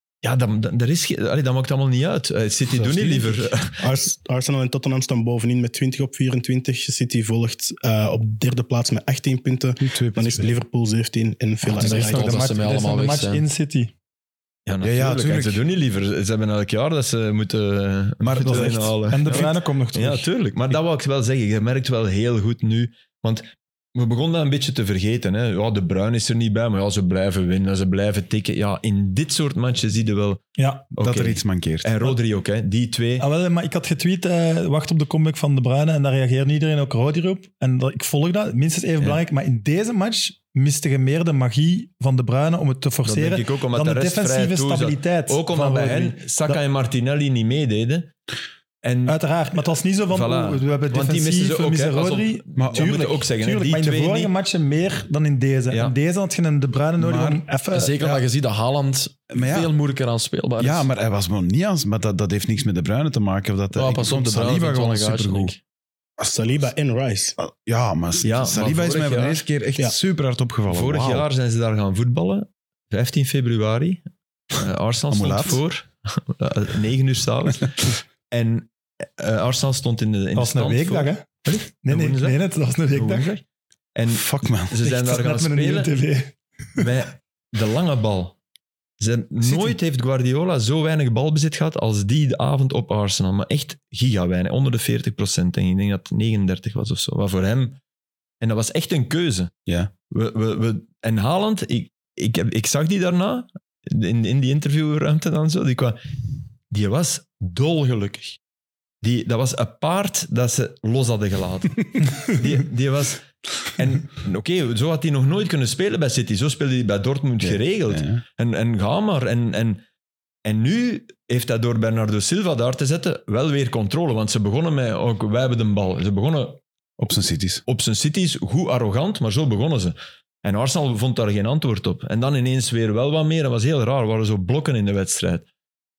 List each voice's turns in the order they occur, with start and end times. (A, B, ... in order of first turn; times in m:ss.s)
0:00.2-0:03.8 A
0:02.7-0:03.5 B
0:03.8-0:12.5 C
0:09.8-0:10.6 B
0:11.7-0:13.4 D
0:11.7-0:13.9 E
0:14.7-0:30.4 A
0:14.8-0:15.6 B
0:18.2-0:19.5 B
0:18.4-0:20.3 E
0:30.6-0:30.9 E
0:31.0-0:33.2 A
0:31.0-0:32.1 B
0:33.2-0:46.6 E
0:43.0-0:48.1 A
0:48.8-0:49.2 A
0:49.1-0:58.1 E
0:50.1-0:54.3 A
0:52.6-0:53.0 B
0:57.0-0:57.4 B
0:57.7-1:00.9 D
0:59.3-0:59.7 B
1:00.6-1:05.5 B
1:03.7-1:05.6 D
1:06.2-1:07.4 C
1:07.4-1:11.3 B
1:08.2-1:09.4 A
1:10.7-1:14.0 A
1:14.6-1:22.4 A
1:15.1-1:15.6 B
1:20.4-1:23.3 E
1:22.9-1:23.4 A
1:24.0-1:26.0 A
1:24.1-1:24.8 B
1:24.8-1:26.8 E
1:26.8-1:28.4 A
1:29.0-1:37.8 A
1:29.4-1:29.8 B
1:38.4-1:39.5 A
1:39.7-1:39.9 B
1:40.1-1:46.0 A
1:46.7-1:48.4 A
1:49.0-1:59.8 A
1:57.4-1:58.2 B
2:00.4-2:06.6 A
2:07.0-2:07.6 B
2:07.7-2:15.5 A